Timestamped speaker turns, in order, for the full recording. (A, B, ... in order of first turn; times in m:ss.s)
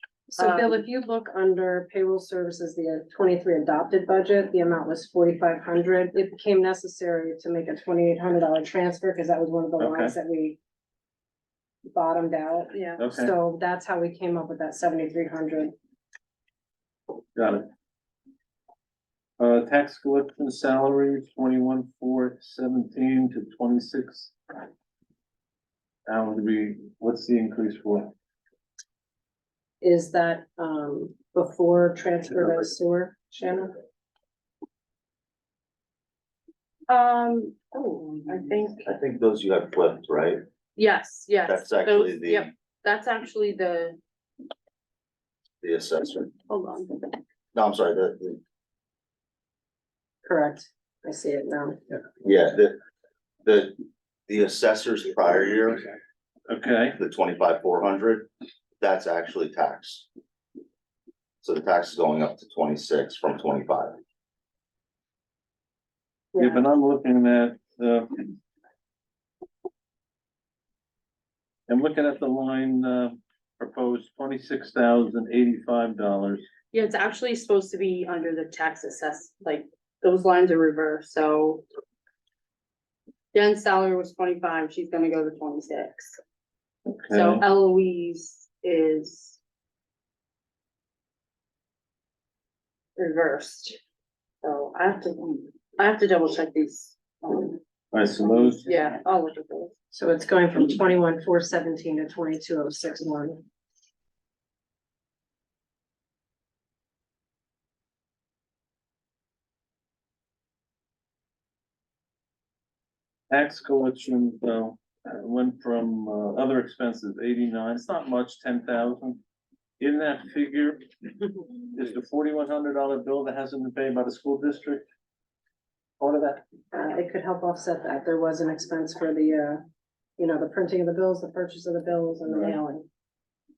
0:00.3-0:10.6 A
0:00.4-0:00.8 B
0:09.8-0:10.1 C
0:11.9-0:15.7 A
0:12.7-0:13.0 B
0:13.0-0:13.4 C
0:17.4-0:17.7 C
0:19.4-0:24.3 C
0:26.1-0:28.1 C
0:29.8-0:33.8 A
0:36.9-0:38.9 B
0:38.9-0:40.4 D
0:40.8-0:44.0 B
0:41.5-0:42.5 D
0:45.6-0:46.3 D
0:46.5-0:47.1 B
0:47.5-0:48.4 D
0:50.2-0:51.8 A
0:52.2-0:52.8 D
0:53.4-0:53.8 D
0:54.3-0:55.9 D
0:56.5-0:57.0 C
0:57.0-0:58.3 D
0:58.8-1:00.1 D
1:01.4-1:04.0 D
1:06.4-1:08.3 C
1:11.7-1:16.4 C
1:16.7-1:21.6 B
1:23.3-1:26.2 B
1:26.9-1:27.4 C
1:27.1-1:29.4 B
1:33.0-1:33.8 B
1:34.4-1:37.6 B
1:37.9-1:38.7 C
1:38.5-1:39.7 B
1:39.9-1:43.4 A
1:53.3-1:59.2 C
1:59.8-2:00.9 C
2:01.7-2:04.8 C
2:06.0-2:06.4 C
2:06.7-2:09.6 A
2:10.2-2:12.9 A
2:12.3-2:12.6 C